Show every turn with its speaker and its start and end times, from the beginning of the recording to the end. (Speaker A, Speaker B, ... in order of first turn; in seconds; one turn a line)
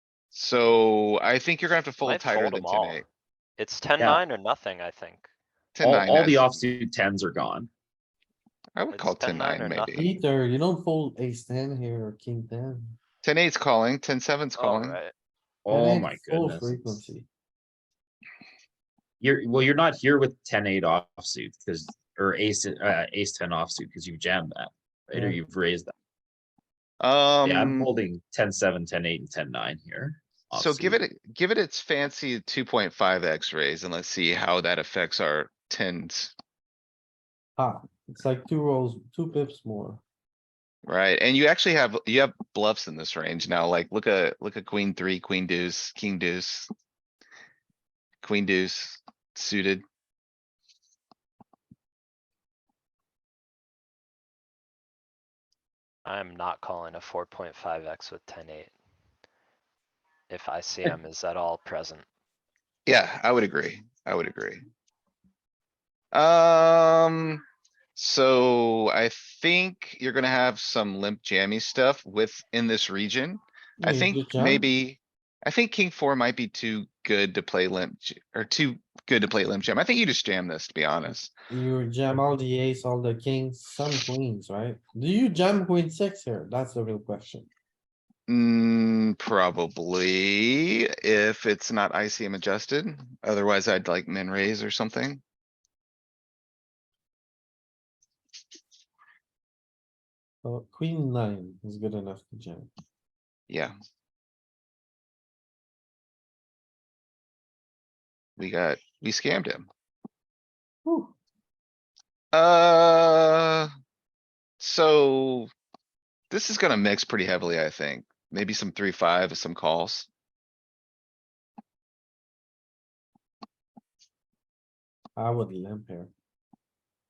Speaker A: 0.3-3.0
Speaker B: 2.0-3.0
Speaker B: 3.6-5.3
Speaker A: 5.7-6.6
Speaker C: 5.8-7.7
Speaker A: 8.7-10.1
Speaker B: 8.9-10.2
Speaker D: 9.9-12.9
Speaker A: 13.2-15.0
Speaker B: 14.6-15.1
Speaker C: 15.6-17.0
Speaker D: 15.7-17.3
Speaker C: 19.2-25.9
Speaker A: 27.0-27.9
Speaker C: 27.4-31.0
Speaker A: 30.5-36.3
Speaker D: 37.6-40.0
Speaker A: 40.9-46.7
Speaker A: 48.2-49.8
Speaker B: 56.0-58.7
Speaker B: 60.3-62.0
Speaker A: 62.9-64.6
Speaker A: 66.1-67.4
Speaker A: 68.0-81.3
Speaker D: 73.8-74.7
Speaker D: 81.5-87.5
Speaker A: 88.3-95.2
Speaker D: 100.4-102.7
Speaker A: 103.5-103.7
Speaker A: 108.4-109.7
Speaker D: 110.8-111.1
Speaker A: 112.3-113.7
Speaker A: 114.6-115.5
Speaker A: 116.3-120.1
Speaker D: 125.2-126.1